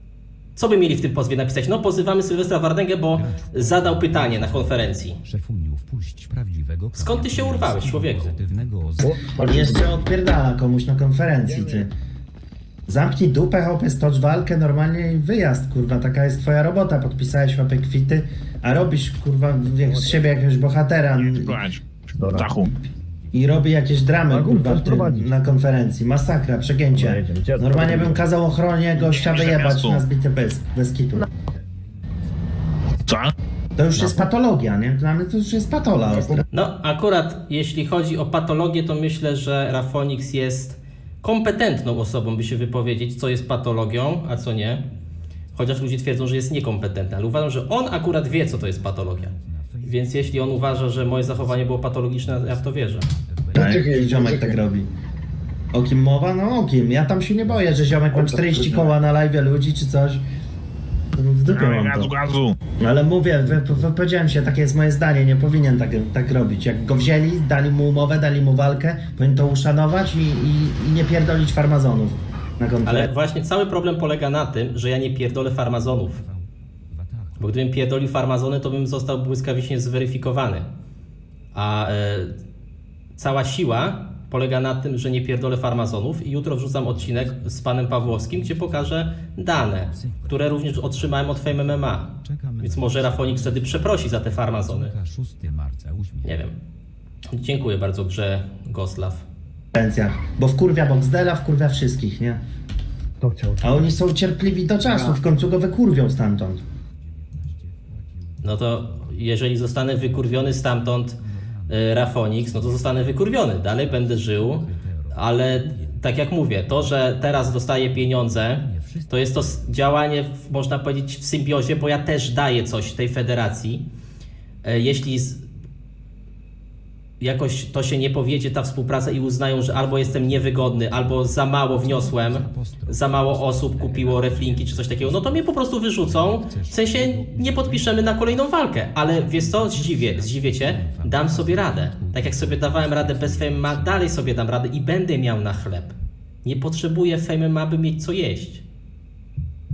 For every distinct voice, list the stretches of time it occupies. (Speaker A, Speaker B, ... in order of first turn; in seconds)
Speaker A: 0.6-5.2, 7.0-8.3, 36.5-44.8, 45.5-49.3, 49.8-53.1, 72.8-76.2, 77.4-80.7, 81.5-82.3, 83.2-94.9, 96.2-96.5, 97.3-99.2, 108.4-111.2, 111.7-123.8, 124.6-125.4, 127.2-148.6
Speaker B: 3.1-9.2, 48.4-53.8, 76.2-77.5, 87.0-88.9, 89.6-96.4, 107.1-108.4, 114.6-115.2, 118.3-119.4, 129.8-130.4, 131.8-135.5, 136.0-138.2, 139.2-144.1
Speaker C: 9.0-9.9, 19.9-20.2, 22.2-22.5, 24.3-25.3, 26.9-28.2, 33.9-34.2, 53.6-54.6, 58.1-58.7, 103.2-103.8, 104.9-105.1
Speaker D: 9.4-11.9, 12.9-21.6, 23.3-31.3, 33.8-36.4, 53.5-54.9, 55.7-60.2, 61.1-62.1, 62.8-73.1, 99.7-102.4, 103.6-106.6
Speaker E: 21.1-22.7, 29.2-30.0, 33.1-33.3, 61.5-62.6